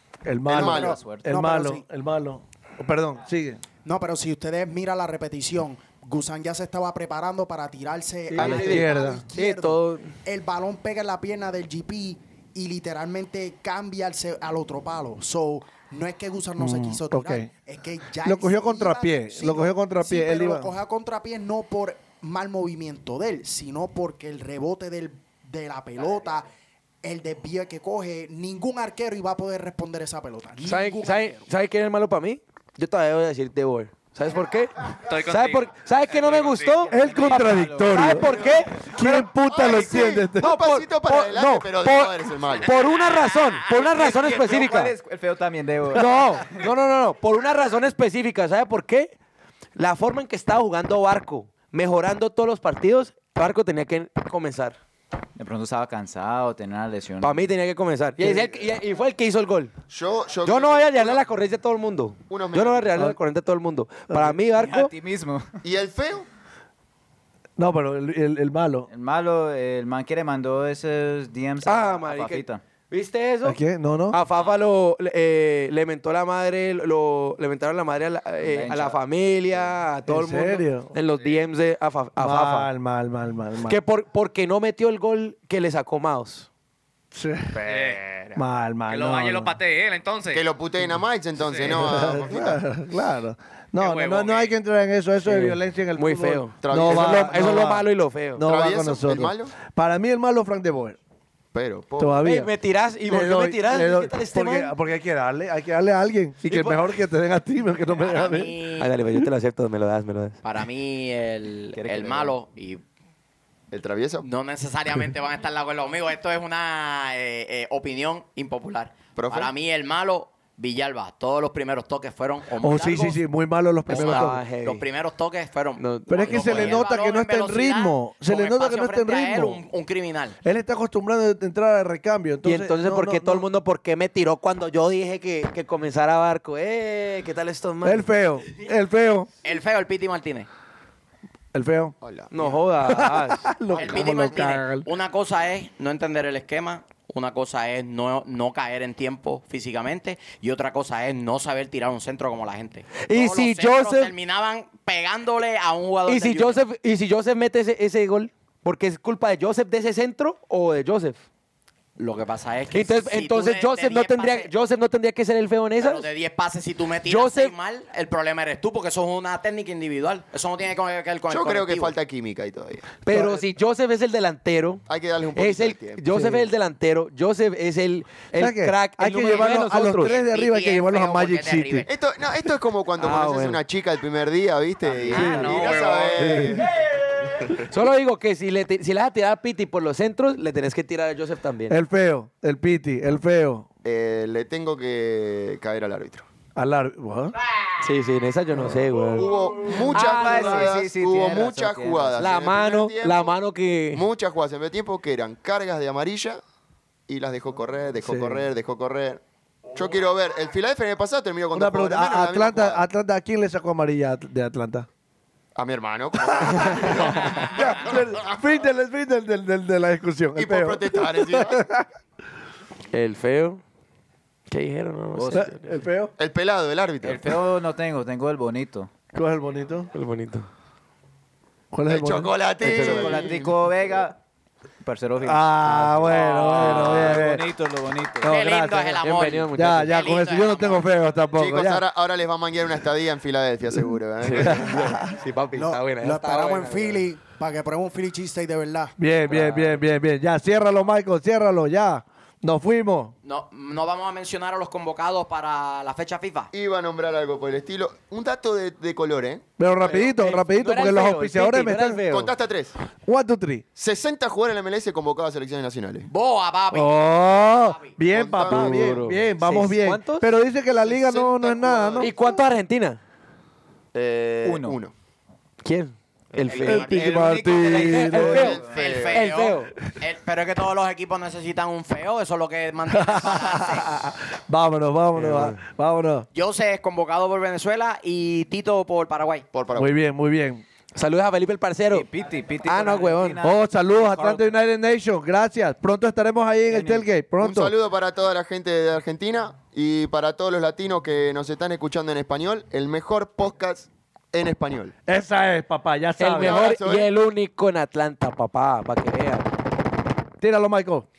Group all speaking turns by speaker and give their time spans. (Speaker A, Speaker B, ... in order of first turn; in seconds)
Speaker A: 0.2-3.6, 8.5-9.2, 16.6-17.5, 18.2-20.7, 36.9-40.6, 58.2-58.5, 64.1-64.4, 67.6-68.9, 73.4-74.2, 80.1-80.9, 82.2-83.8, 87.1-87.6, 88.4-89.5, 91.7-101.0, 102.0-102.5, 103.1-108.5, 122.6-124.4, 126.1-129.6, 130.4-133.5, 137.8-139.3, 141.5-142.0, 142.8-144.9, 173.1-173.4, 176.1-176.5, 178.3-181.9, 185.1-185.6, 186.2-186.7, 191.7-193.7, 196.6-197.3, 208.0-208.5, 211.5-214.9, 216.3-221.9, 225.3-226.1, 229.1-229.9, 231.7-233.3, 235.2-237.4, 238.2-241.8, 244.3-245.1, 249.0-253.2, 259.6-262.1, 263.0-263.6, 266.7-272.1, 276.6-278.5, 282.9-286.3, 289.8-290.6, 293.4-297.7, 305.1-306.7, 310.4-311.1
Speaker B: 0.5-1.9, 3.8-26.5, 27.0-31.5, 245.6-249.0
Speaker C: 0.5-1.0, 39.0-42.7, 59.9-61.3, 62.3-62.9, 65.6-66.3, 87.5-88.4, 90.3-92.7, 96.6-97.6, 98.4-99.6, 101.5-102.3, 113.7-114.3, 119.2-119.5, 142.0-142.6, 171.3-172.9, 174.9-176.1, 181.9-186.7, 193.8-196.3, 199.1-203.3, 203.9-206.4, 207.1-212.8, 215.6-218.3, 220.3-221.7, 226.2-227.4, 231.9-233.6, 241.3-245.0, 256.5-259.5, 262.1-262.8, 263.8-266.1, 268.1-269.0, 270.7-272.3, 273.9-274.9, 276.3-277.1, 278.3-279.2, 289.5-290.0, 297.4-304.9, 306.3-307.1
Speaker D: 0.8-1.3, 36.9-39.0, 43.7-46.7, 55.4-57.5, 64.5-65.6, 68.9-72.6, 78.4-79.0, 111.7-112.3, 200.0-202.2, 225.2-225.5, 227.0-228.9, 232.6-234.2, 234.8-238.3, 259.8-262.3, 274.4-274.8, 276.8-278.6, 291.9-294.5, 296.7-297.1
Speaker E: 8.3-10.1, 30.6-38.9, 40.4-45.0, 45.9-49.1, 49.8-54.8, 57.2-59.7, 60.4-64.9, 71.6-73.6, 74.1-82.7, 83.7-86.5, 95.2-98.5, 102.2-104.7, 108.8-110.4, 123.9-124.8, 125.8-126.9, 132.4-138.1, 142.3-144.0, 153.0-154.1, 156.1-161.2, 162.7-166.1, 167.1-167.5, 173.0-174.8, 175.4-180.2, 183.0-183.6, 187.7-191.8, 197.8-199.3, 199.9-200.6, 202.2-204.0, 222.9-223.6, 224.5-225.8, 229.9-230.5, 232.6-233.2, 236.6-237.2, 239.0-240.0, 244.2-247.0, 249.3-249.8, 260.6-262.2, 268.5-270.3, 272.0-273.0, 275.6-279.7, 285.1-285.6, 290.9-292.1, 292.6-293.4, 306.2-309.5
Speaker F: 35.0-36.9, 87.7-88.0, 88.9-90.5, 91.4-91.8, 93.8-94.5, 185.1-186.6, 236.3-236.6
Speaker G: 108.0-108.9, 110.4-112.8, 114.2-123.2, 123.9-130.4, 139.4-140.5, 143.7-156.6, 162.0-164.5, 165.8-171.9, 179.9-181.9, 238.3-240.9, 253.2-256.5, 266.1-268.0, 278.6-284.1, 286.3-289.5